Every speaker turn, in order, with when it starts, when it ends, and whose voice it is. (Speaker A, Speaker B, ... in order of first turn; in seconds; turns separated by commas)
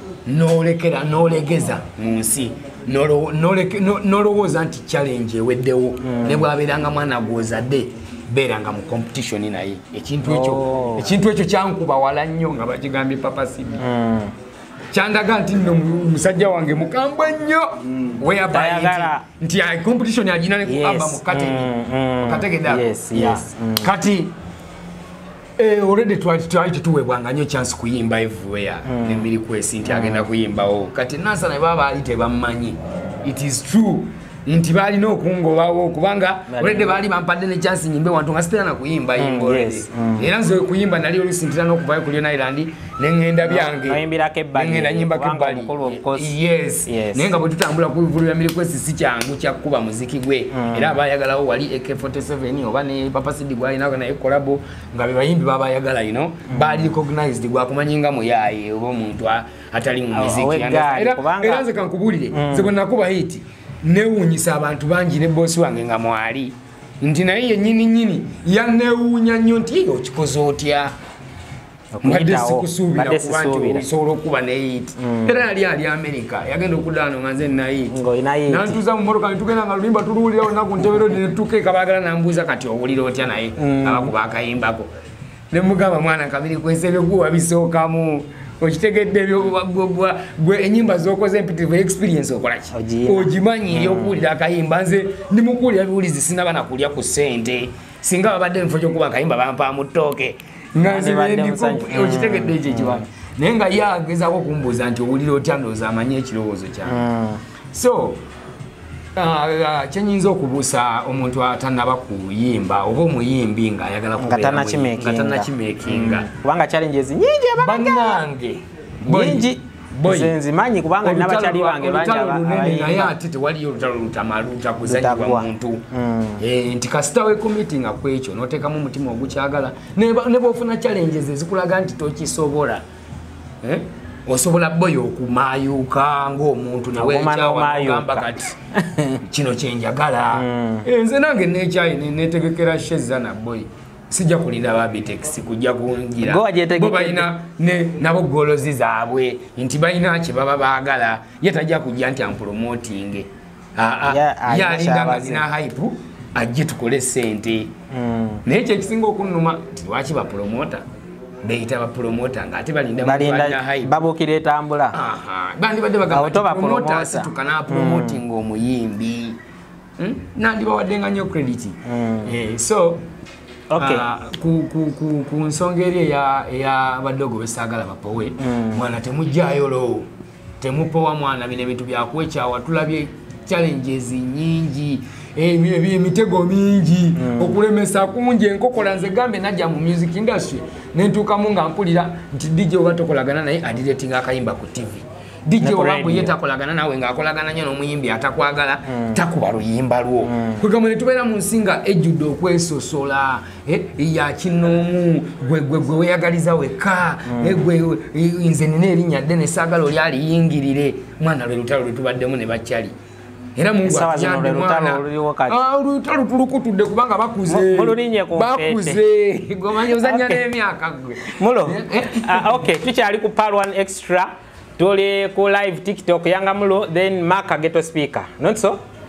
Speaker A: 0.3-13.8, Speaker B: 6.0-6.5, Speaker B: 10.2-11.1, Speaker B: 13.8-14.3, Speaker A: 14.9-24.3, Speaker B: 18.5-19.3, Speaker B: 20.6-23.9, Speaker A: 25.6-44.0, Speaker B: 28.9-29.3, Speaker B: 29.9-30.3, Speaker B: 36.5-37.0, Speaker B: 39.2-40.3, Speaker B: 43.4-46.4, Speaker A: 44.5-70.9, Speaker B: 46.9-47.3, Speaker B: 50.5-51.0, Speaker B: 56.5-56.9, Speaker B: 60.1-61.7, Speaker B: 62.3-62.7, Speaker B: 72.0-73.9, Speaker A: 72.0-84.9, Speaker B: 75.0-75.4, Speaker B: 77.9-78.8, Speaker B: 83.6-84.1, Speaker A: 85.5-107.0, Speaker B: 92.7-94.2, Speaker B: 100.8-103.0, Speaker B: 106.8-107.4, Speaker A: 107.7-108.2, Speaker A: 109.2-116.3, Speaker B: 114.2-118.1, Speaker A: 117.6-120.4, Speaker B: 119.0-123.1, Speaker A: 121.0-125.8, Speaker B: 124.8-126.4, Speaker A: 126.4-132.8, Speaker A: 133.6-138.6, Speaker B: 136.9-139.2, Speaker A: 139.2-157.7, Speaker B: 140.3-140.9, Speaker B: 146.2-147.3, Speaker B: 154.1-155.4, Speaker B: 157.9-158.4, Speaker A: 158.4-160.8, Speaker A: 161.4-163.9, Speaker B: 163.0-165.0, Speaker A: 164.9-169.4, Speaker B: 166.1-168.2, Speaker A: 170.0-173.1, Speaker B: 171.9-172.3, Speaker B: 173.7-174.1, Speaker A: 173.8-180.1, Speaker B: 178.4-178.8, Speaker A: 180.6-213.0, Speaker B: 187.2-187.6, Speaker B: 195.6-196.3, Speaker B: 198.9-199.2, Speaker B: 200.3-200.6, Speaker B: 207.3-207.7, Speaker A: 213.6-222.7, Speaker B: 213.8-215.6, Speaker B: 217.5-219.0, Speaker B: 219.7-220.5, Speaker B: 221.2-228.8